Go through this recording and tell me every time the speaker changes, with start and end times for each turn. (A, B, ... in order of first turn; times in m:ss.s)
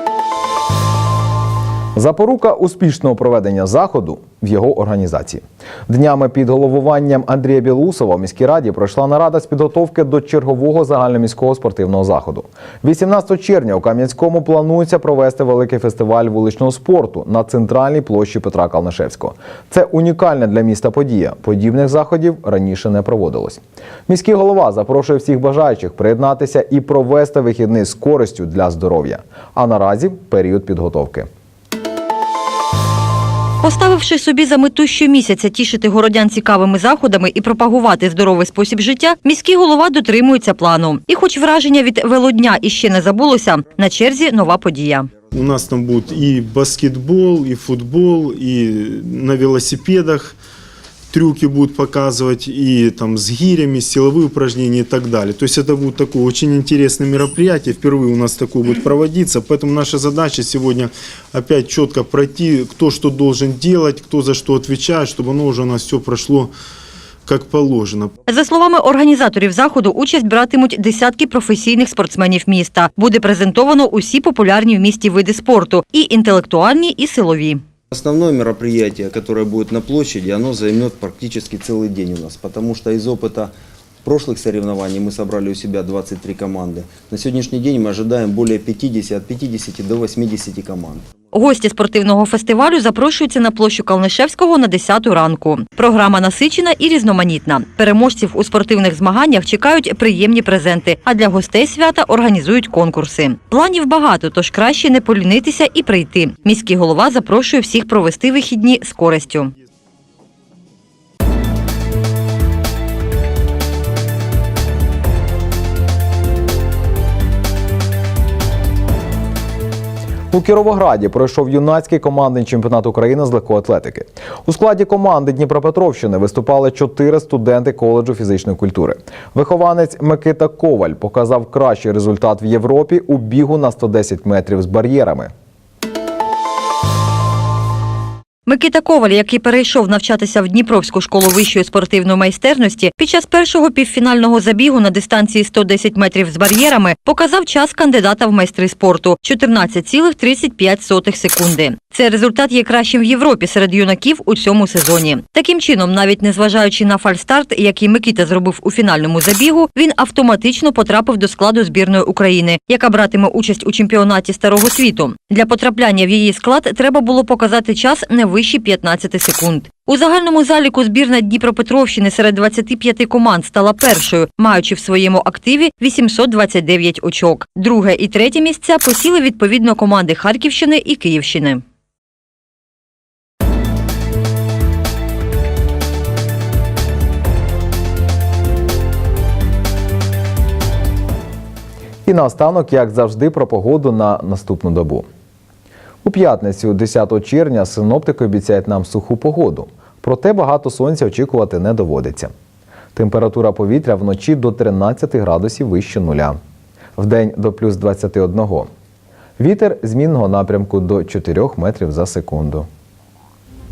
0:02.0-0:31.3 A
0:33.6-0:45.1 B
0:45.3-0:50.4 C
0:51.1-1:06.5 C
1:07.2-1:08.1 C
1:08.3-1:17.6 B
1:17.9-1:23.5 D
1:24.0-1:31.0 D
1:31.3-1:49.5 B
2:00.3-2:15.3 A
2:18.4-3:01.6 B
3:12.1-3:15.1 A
3:16.0-3:22.3 A
3:23.0-3:26.4 A
3:27.0-3:28.7 A
3:29.4-3:32.7 A